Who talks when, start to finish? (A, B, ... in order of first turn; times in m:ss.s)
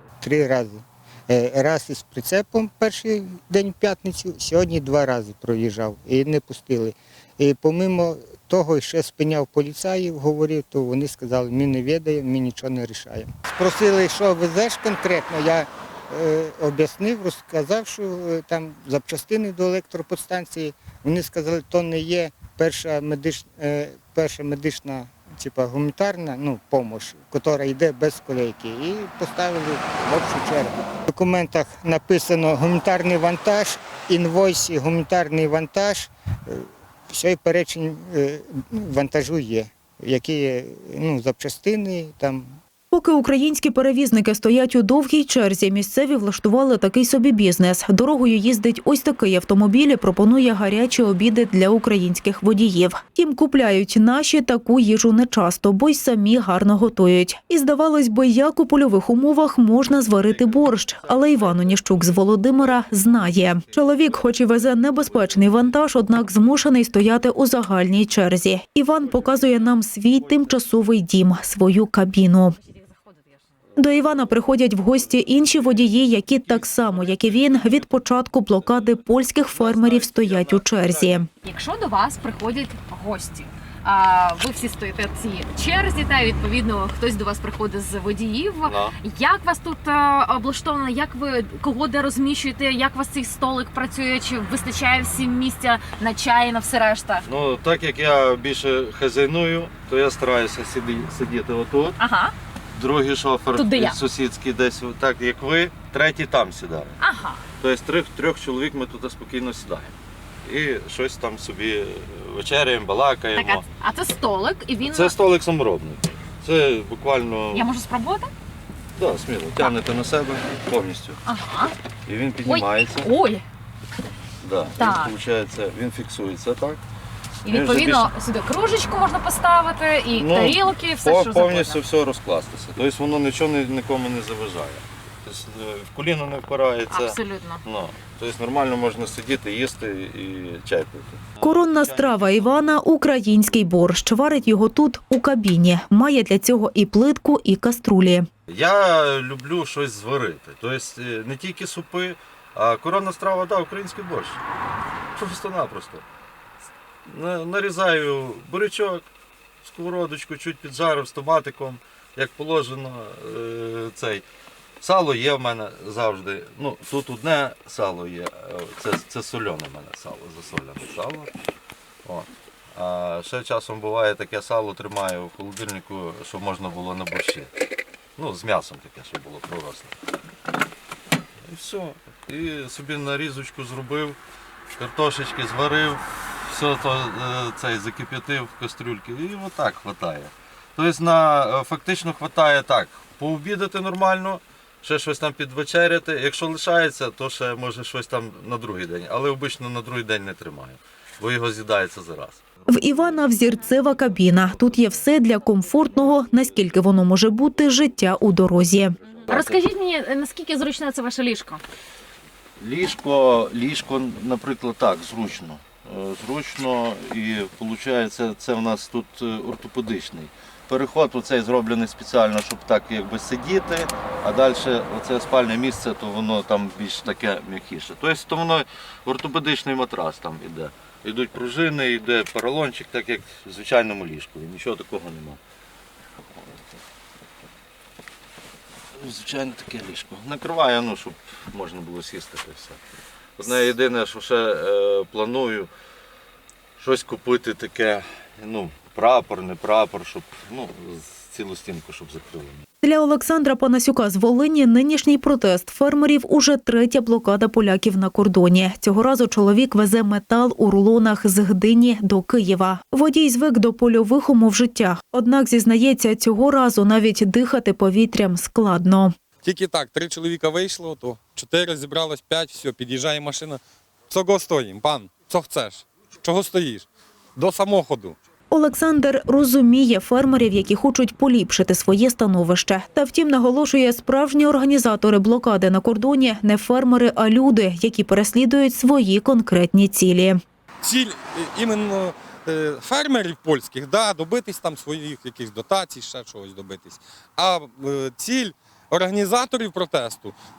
0:00.2-0:42.5 A
0:42.9-1:12.6 B
1:13.8-1:21.3 B
1:19.6-1:21.0 C
1:21.4-1:37.3 D
1:28.7-1:28.9 C
1:37.2-1:42.0 C
1:42.0-1:42.3 D
1:42.8-1:47.0 C
1:43.5-1:44.0 D
1:47.0-1:47.4 D
1:47.6-1:53.6 C
1:53.4-1:55.1 D
1:54.8-1:57.7 C
1:57.5-1:58.3 D
1:59.0-2:01.2 C
2:01.3-2:01.8 D
2:02.1-2:03.1 C
2:02.4-2:03.4 D
2:04.4-2:06.8 C
2:04.8-2:05.2 D
2:07.4-2:11.8 D
2:07.4-2:08.1 C
2:10.1-2:22.6 C
2:16.9-2:17.6 D
2:21.4-2:28.3 B
2:28.5-2:34.4 C
2:35.2-2:36.0 C
2:37.1-2:39.0 C
2:39.6-2:44.2 C
2:44.8-2:51.3 C
2:52.0-2:57.5 C
2:58.2-2:59.9 C
3:01.5-3:04.2 C
3:04.7-3:22.4 C
3:22.7-3:29.0 B
3:29.2-3:29.6 C
3:29.3-3:31.6 D
3:32.6-3:55.4 C
3:59.0-4:02.8 C
4:03.4-4:05.7 C
4:06.8-4:12.6 C
4:12.8-4:29.1 B
4:29.4-4:38.2 E
4:38.5-4:50.4 B
4:50.8-5:00.4 E